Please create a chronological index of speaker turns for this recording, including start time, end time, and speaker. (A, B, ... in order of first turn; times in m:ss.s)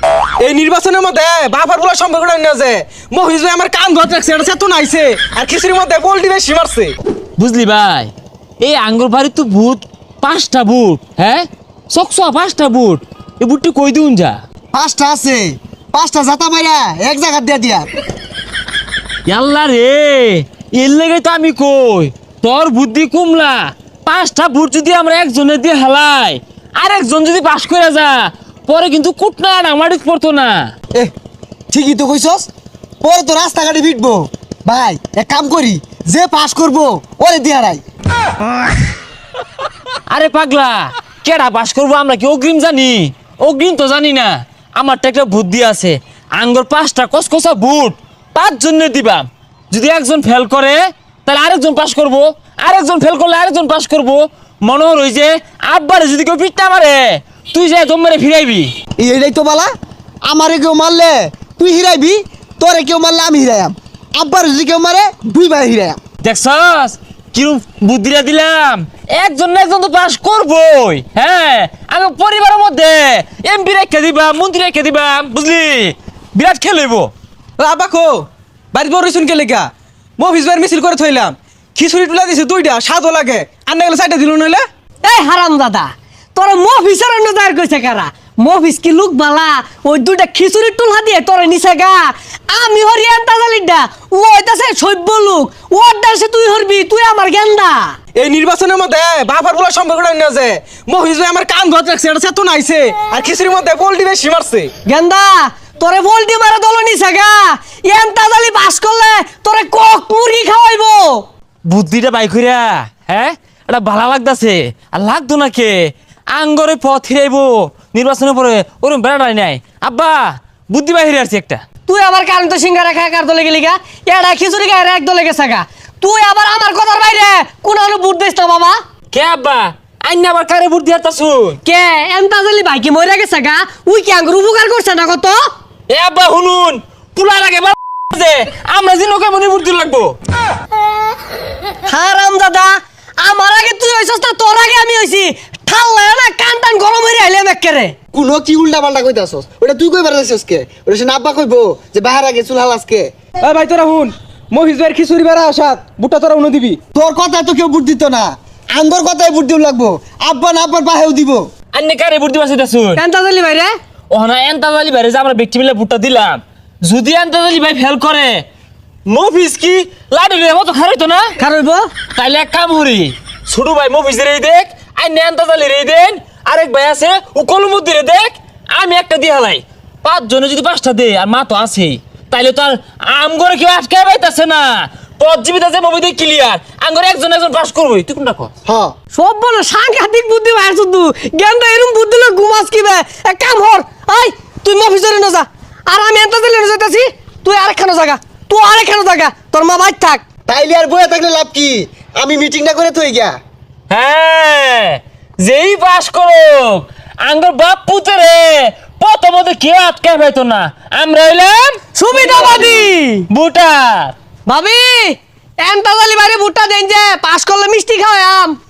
0:00.4-0:07.0 A
0:07.4-0:14.4 B
0:14.7-0:17.9 C
0:19.3-0:30.7 B
0:31.7-0:32.5 C
0:33.0-0:37.8 C
0:40.1-0:58.7 B
0:59.0-0:59.7 C
1:00.2-1:06.0 C
1:06.2-1:17.1 B
1:17.6-1:24.6 A
1:25.0-1:37.9 D
1:38.2-1:44.7 A
1:44.8-1:51.2 D
1:51.7-2:01.6 B
2:01.9-2:08.8 D
2:09.1-2:11.6 B
2:11.6-2:15.4 D
2:15.9-2:20.2 B
2:21.9-2:27.9 D
2:28.1-2:33.1 C
2:33.4-2:36.8 A
2:36.9-2:41.5 C
2:41.7-2:43.0 B
2:43.0-2:43.7 D
2:44.1-2:48.4 B
2:49.1-2:51.4 B
2:51.4-2:51.9 D
2:52.1-3:08.5 B
3:08.7-3:08.9 C
3:09.1-3:20.2 D
3:20.5-3:23.4 C
3:23.9-3:32.5 B
3:32.0-3:33.3 D
3:33.3-3:34.2 B
3:34.5-3:38.6 D